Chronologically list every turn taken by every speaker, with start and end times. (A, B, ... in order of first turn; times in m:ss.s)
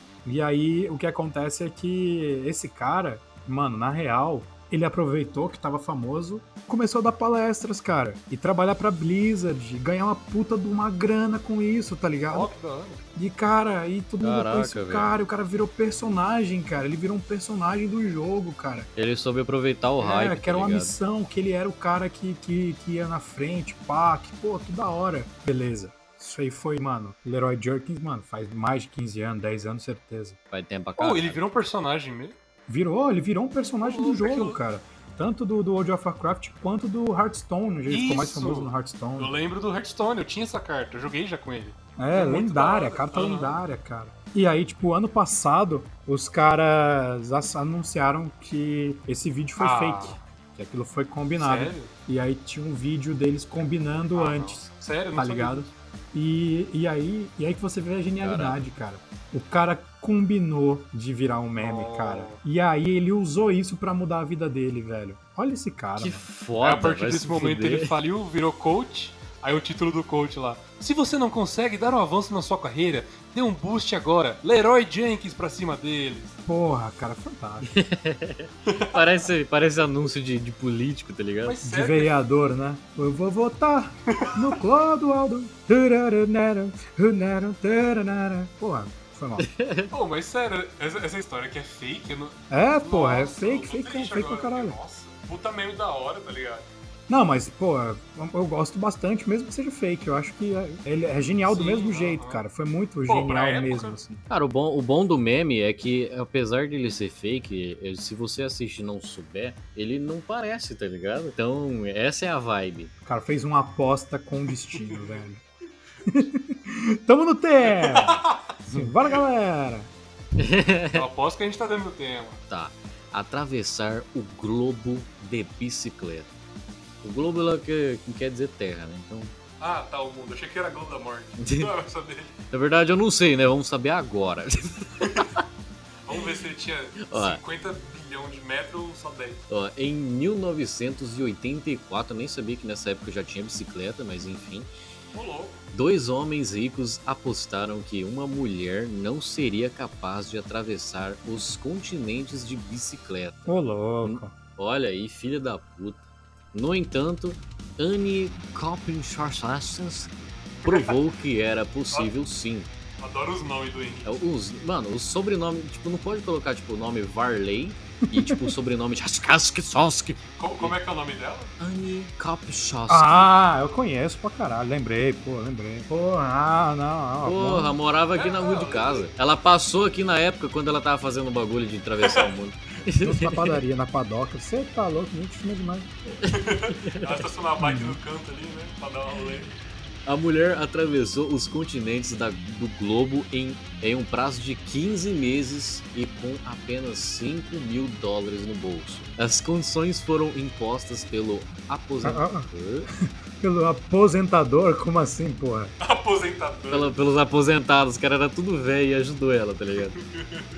0:00.2-0:12.5 A
0:12.3-0:13.0 B
0:13.2-0:18.9 A
0:14.2-0:15.1 C
0:19.0-0:20.9 C
0:20.0-0:30.4 A
0:30.5-0:31.4 C
0:31.0-0:32.3 B
0:32.7-0:39.4 A
0:33.8-0:34.6 B
0:37.9-0:43.6 B
0:42.0-1:06.2 A
0:49.6-0:50.2 B
0:51.4-0:51.9 B
0:54.1-0:55.7 B
0:58.2-0:58.6 C
1:01.6-1:02.4 B
1:06.0-1:07.9 C
1:06.6-1:16.4 B
1:16.4-1:17.7 A
1:17.6-1:21.6 C
1:18.6-1:19.1 B
1:21.4-1:22.1 B
1:21.6-1:29.5 A
1:24.1-1:24.4 B
1:29.4-1:29.9 C
1:29.9-1:36.6 B
1:32.5-1:34.8 A
1:37.1-1:44.2 A
1:41.5-1:42.4 B
1:43.1-1:44.0 B
1:44.3-1:52.9 C
1:53.0-1:55.4 A
1:54.7-1:55.2 B
1:56.0-1:59.9 A
1:57.7-1:58.5 B
2:00.4-2:01.0 C
2:00.9-2:02.4 B
2:02.5-2:06.3 C
2:07.0-2:09.3 C
2:09.6-2:12.4 B
2:11.4-2:11.7 C
2:12.5-2:15.4 C
2:16.0-2:19.4 B
2:17.0-2:17.4 C
2:19.5-2:24.7 C
2:25.1-2:25.6 B
2:25.7-2:36.0 C
2:33.4-2:34.3 A
2:36.5-2:40.1 C
2:40.6-2:42.7 C
2:40.6-2:40.9 B
2:43.0-2:44.1 B
2:44.0-2:50.7 C
2:48.1-2:48.5 A
2:50.4-2:51.5 B
2:51.6-2:53.3 C
2:52.9-2:57.8 A
2:57.2-3:03.6 C
2:58.1-2:59.1 B
3:02.0-3:02.3 B
3:03.0-3:05.9 A
3:06.2-3:07.3 C
3:06.3-3:09.5 B
3:07.6-3:08.0 A
3:10.0-3:22.9 C
3:22.0-3:22.5 A
3:23.4-3:25.7 A
3:25.8-3:27.0 B
3:26.7-3:30.0 C
3:30.0-3:30.4 B